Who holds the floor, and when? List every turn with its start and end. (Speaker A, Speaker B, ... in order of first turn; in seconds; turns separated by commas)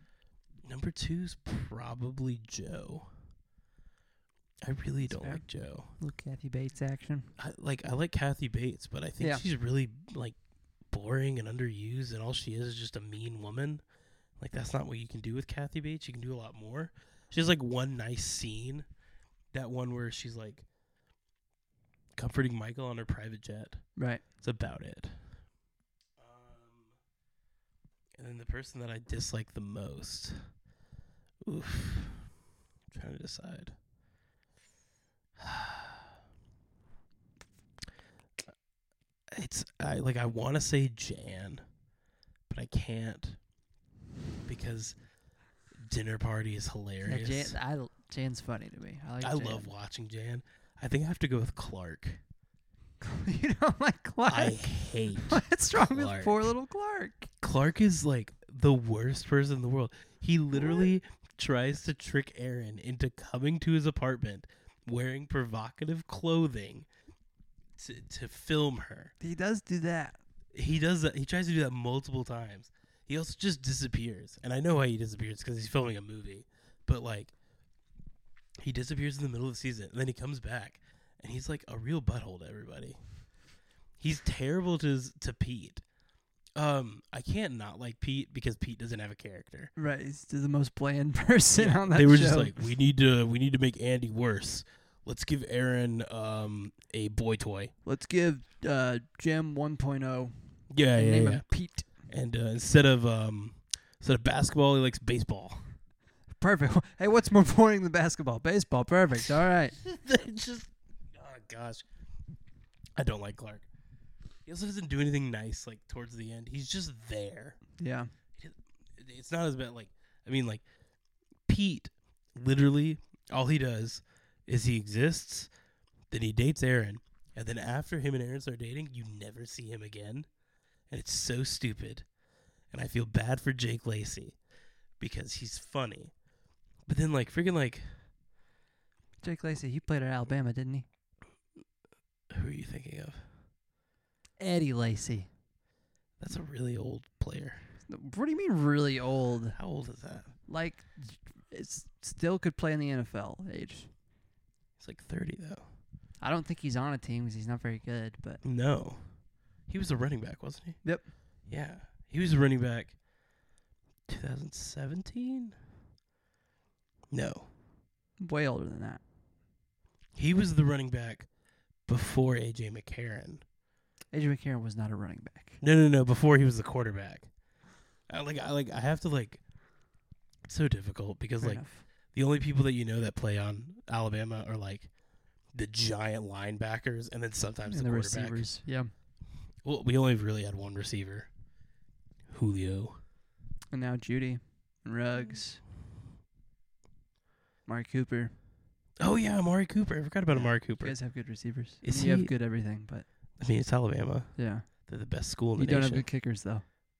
Speaker A: 0.7-3.1, Speaker A: 4.6-5.9, Speaker B: 5.0-5.4, Speaker B: 6.0-7.3, Speaker A: 7.4-10.4, Speaker A: 10.9-13.8, Speaker A: 14.4-18.9, Speaker A: 19.5-20.6, Speaker A: 22.1-23.9, Speaker B: 24.0-24.2, Speaker A: 24.4-25.2, Speaker A: 26.2-26.9, Speaker A: 28.2-30.4, Speaker A: 31.4-32.3, Speaker A: 32.9-33.8, Speaker A: 35.4-36.1, Speaker A: 39.3-41.6, Speaker A: 42.5-43.4, Speaker A: 44.5-45.0, Speaker A: 45.9-47.6, Speaker B: 47.0-49.7, Speaker A: 49.2-52.2, Speaker B: 53.0-57.3, Speaker A: 54.3-56.4, Speaker A: 57.4-66.9, Speaker B: 60.6-60.9, Speaker A: 67.8-69.1, Speaker B: 69.2-70.2, Speaker A: 70.5-77.3, Speaker A: 78.6-83.0, Speaker A: 84.0-85.8, Speaker A: 86.6-89.7, Speaker B: 89.8-92.5, Speaker A: 91.6-97.7, Speaker B: 97.8-100.3, Speaker A: 100.7-101.5, Speaker B: 100.9-101.9, Speaker A: 102.1-105.6, Speaker B: 106.4-109.8, Speaker A: 109.8-111.8, Speaker A: 113.0-113.7, Speaker A: 114.5-117.6, Speaker B: 117.8-118.1, Speaker A: 118.4-120.6, Speaker A: 121.5-125.5, Speaker A: 126.1-130.3, Speaker A: 130.9-132.1, Speaker A: 132.7-134.4, Speaker A: 135.0-136.1, Speaker A: 136.9-137.9, Speaker B: 139.2-140.9, Speaker A: 142.3-143.2, Speaker B: 144.4-145.3, Speaker A: 146.2-147.6, Speaker B: 147.9-149.6, Speaker A: 149.6-150.3, Speaker B: 150.5-153.9, Speaker A: 154.8-155.6, Speaker B: 156.2-158.4, Speaker A: 158.4-159.0, Speaker A: 159.7-160.8, Speaker B: 160.8-161.1, Speaker A: 161.5-163.0, Speaker A: 164.1-165.6, Speaker A: 167.1-167.5, Speaker B: 168.2-169.0, Speaker A: 170.2-171.3, Speaker A: 171.9-173.4, Speaker B: 174.1-175.6, Speaker A: 175.6-177.3, Speaker A: 178.1-179.4, Speaker A: 180.5-184.9, Speaker B: 181.4-181.8, Speaker A: 185.6-188.5, Speaker B: 187.7-188.9, Speaker A: 189.6-191.3, Speaker A: 192.3-193.0, Speaker B: 193.7-195.6, Speaker B: 197.7-198.3, Speaker A: 199.0-201.0, Speaker B: 200.3-203.1, Speaker A: 201.8-202.3, Speaker A: 203.4-204.3, Speaker B: 204.4-204.7, Speaker A: 204.8-206.1, Speaker B: 205.6-206.7